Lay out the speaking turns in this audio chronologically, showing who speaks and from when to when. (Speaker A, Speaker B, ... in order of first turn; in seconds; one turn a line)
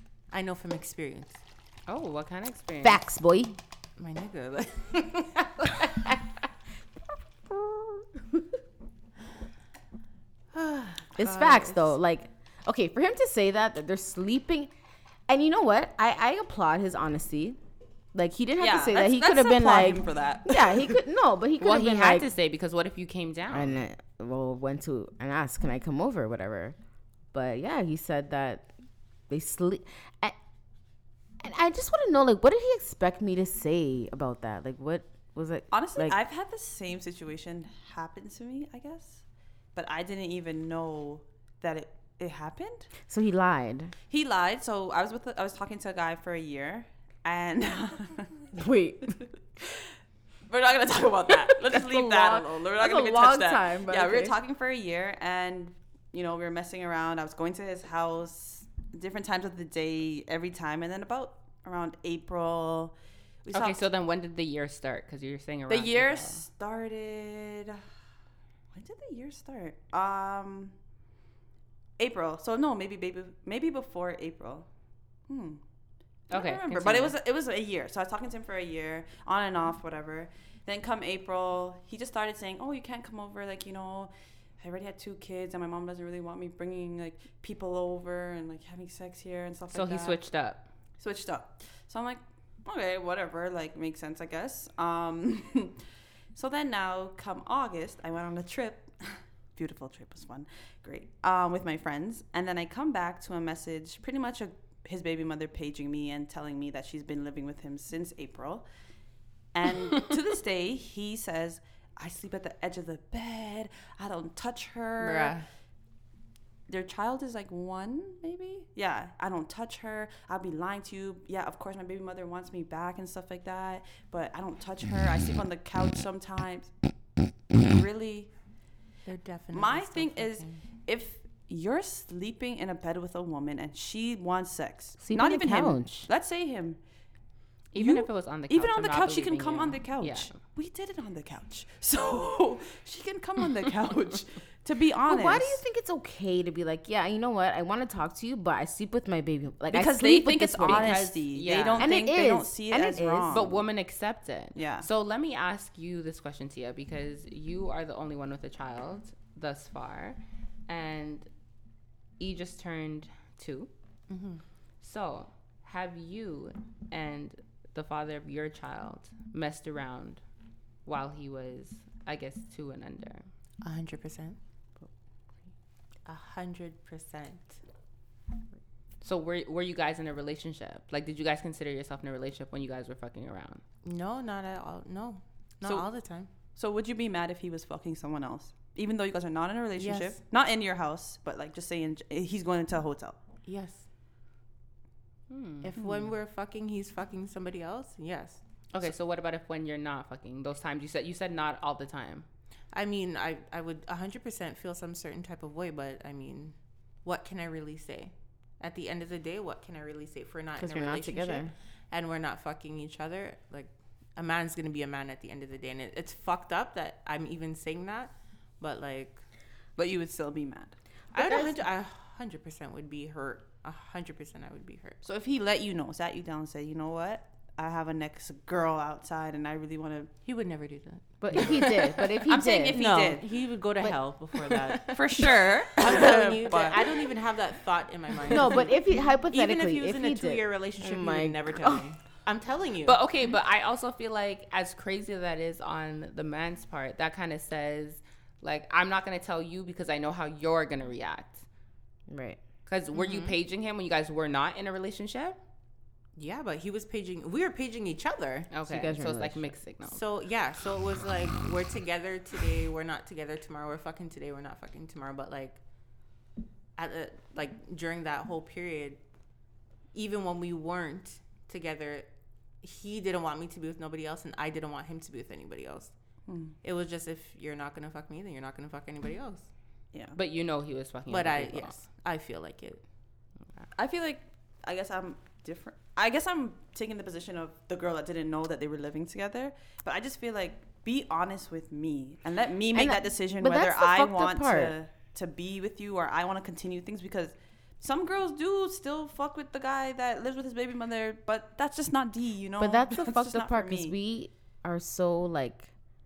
Speaker A: 0.3-1.4
Speaker B: 1.9-3.0
Speaker C: 2.8-3.6
Speaker A: 4.0-6.0
Speaker C: 7.5-7.8
Speaker A: 10.5-11.9
Speaker C: 11.2-14.7
Speaker C: 15.3-17.6
Speaker C: 18.1-22.3
Speaker D: 18.6-21.0
Speaker B: 21.6-23.8
Speaker C: 23.5-26.8
Speaker C: 27.3-28.7
Speaker C: 29.3-30.4
Speaker C: 31.4-36.2
Speaker D: 35.7-39.2
Speaker D: 39.8-42.9
Speaker C: 43.1-43.9
Speaker D: 44.1-48.5
Speaker C: 48.5-49.2
Speaker D: 50.5-63.8
Speaker C: 51.5-54.4
Speaker B: 63.5-66.4
Speaker D: 65.7-67.8
Speaker D: 68.7-70.8
Speaker D: 72.0-74.7
Speaker D: 75.3-75.6
Speaker B: 76.3-77.2
Speaker D: 76.3-90.2
Speaker B: 89.7-90.7
Speaker D: 91.0-95.8
Speaker D: 96.3-108.7
Speaker D: 109.5-115.4
Speaker A: 115.0-115.4
Speaker D: 116.7-126.7
Speaker D: 127.5-128.3
Speaker A: 129.1-130.6
Speaker D: 129.5-136.8
Speaker C: 135.0-136.1
Speaker B: 137.7-140.3
Speaker D: 137.8-145.6
Speaker C: 145.1-151.1
Speaker D: 149.7-153.5
Speaker B: 150.6-151.9
Speaker C: 151.8-153.6
Speaker B: 153.3-161.3
Speaker D: 154.6-154.9
Speaker B: 162.2-163.7
Speaker A: 164.1-164.4
Speaker B: 164.8-170.2
Speaker B: 170.9-173.3
Speaker A: 173.6-174.4
Speaker A: 176.1-177.6
Speaker B: 179.0-183.6
Speaker A: 183.8-186.3
Speaker D: 186.6-193.2
Speaker A: 189.8-190.2
Speaker A: 193.5-193.9
Speaker B: 195.3-195.7
Speaker A: 195.6-198.4
Speaker D: 195.8-196.1
Speaker B: 198.7-202.3
Speaker A: 202.7-219.2
Speaker C: 210.6-211.5
Speaker D: 219.8-220.7
Speaker A: 221.1-225.0
Speaker C: 221.2-221.6
Speaker D: 225.0-230.1
Speaker A: 230.2-243.0
Speaker C: 231.2-232.8
Speaker D: 232.2-233.2
Speaker B: 234.5-234.8
Speaker D: 234.9-237.1
Speaker C: 238.3-241.8
Speaker B: 242.8-251.4
Speaker C: 252.1-252.4
Speaker B: 252.7-255.4
Speaker A: 252.9-253.4
Speaker A: 256.2-258.5
Speaker B: 258.5-260.0
Speaker C: 258.7-259.6
Speaker A: 259.9-265.6
Speaker A: 266.8-269.0
Speaker A: 269.9-272.1
Speaker A: 272.6-275.9
Speaker D: 276.3-276.5
Speaker A: 276.6-279.5
Speaker B: 280.1-281.8
Speaker A: 281.1-282.8
Speaker D: 283.8-303.9
Speaker C: 292.7-294.8
Speaker C: 302.6-305.7